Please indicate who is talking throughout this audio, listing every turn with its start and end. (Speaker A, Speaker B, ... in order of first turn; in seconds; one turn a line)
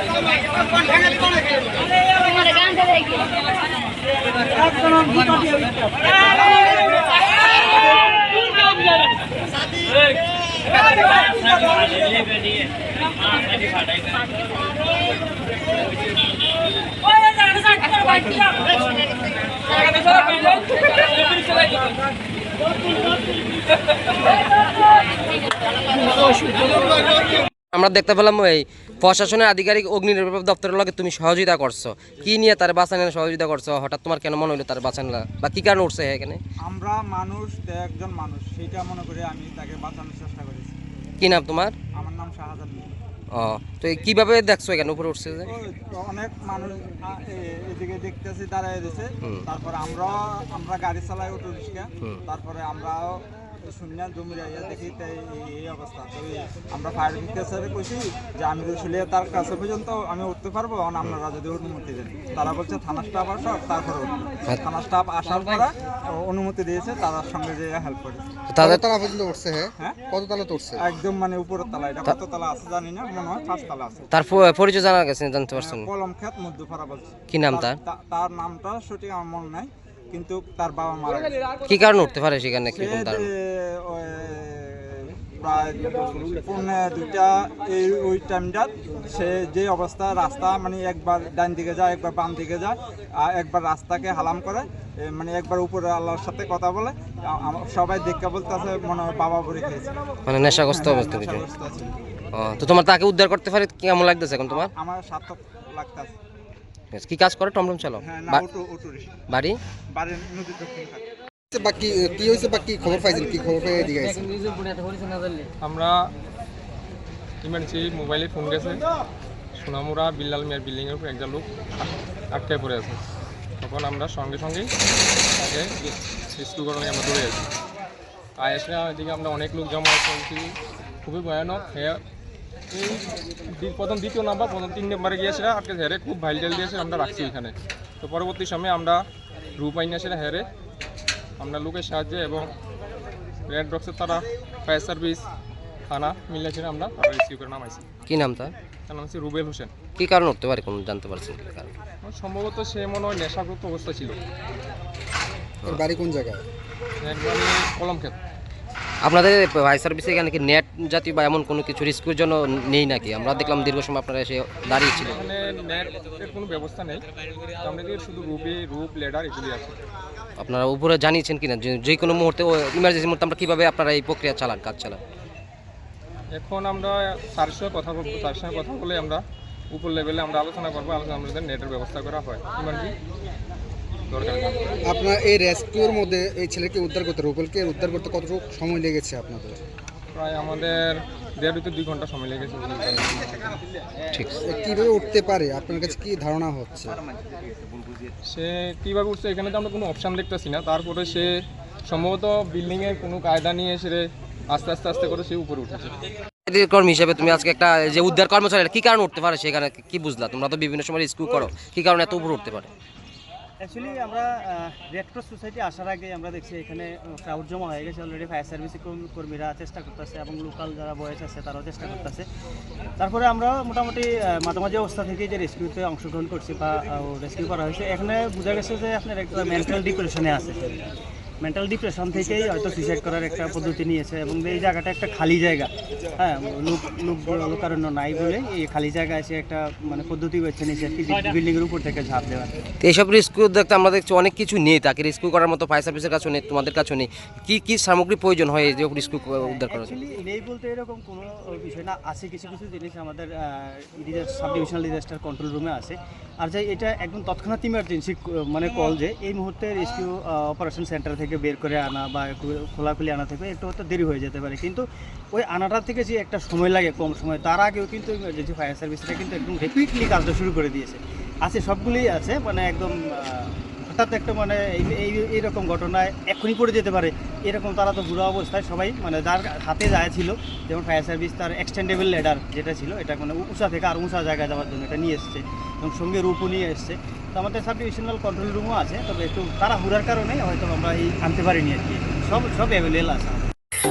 Speaker A: 27.7-36.4
Speaker B: 36.6-40.8
Speaker A: 41.2-41.8
Speaker B: 42.0-42.9
Speaker A: 43.3-45.5
Speaker B: 45.5-68.3
Speaker A: 68.5-68.8
Speaker C: 68.6-70.8
Speaker B: 70.8-74.1
Speaker A: 74.1-75.9
Speaker B: 75.5-81.4
Speaker A: 77.3-77.8
Speaker A: 81.7-83.3
Speaker B: 82.7-101.9
Speaker A: 100.3-101.4
Speaker A: 102.3-104.7
Speaker B: 104.5-106.1
Speaker A: 106.9-108.5
Speaker B: 108.0-109.1
Speaker A: 109.3-109.6
Speaker B: 109.9-111.1
Speaker C: 111.5-114.6
Speaker D: 115.6-115.9
Speaker D: 117.4-118.8
Speaker D: 119.6-123.0
Speaker D: 123.6-124.7
Speaker D: 125.4-127.4
Speaker D: 128.4-132.0
Speaker D: 132.7-133.1
Speaker D: 133.6-139.0
Speaker D: 139.6-140.4
Speaker D: 141.4-142.5
Speaker D: 143.5-145.2
Speaker D: 145.9-147.8
Speaker A: 148.1-148.5
Speaker D: 148.9-149.7
Speaker A: 150.0-151.7
Speaker D: 152.0-154.2
Speaker C: 155.7-156.4
Speaker D: 157.0-158.2
Speaker A: 159.0-165.2
Speaker D: 164.9-167.0
Speaker D: 167.6-169.8
Speaker A: 170.4-175.0
Speaker D: 176.3-182.9
Speaker D: 184.1-184.7
Speaker C: 184.8-189.6
Speaker D: 190.1-193.6
Speaker C: 194.4-197.0
Speaker D: 198.3-201.3
Speaker D: 201.9-206.0
Speaker A: 206.5-212.7
Speaker E: 213.6-222.2
Speaker E: 223.0-242.6
Speaker A: 242.8-249.9
Speaker E: 249.4-293.5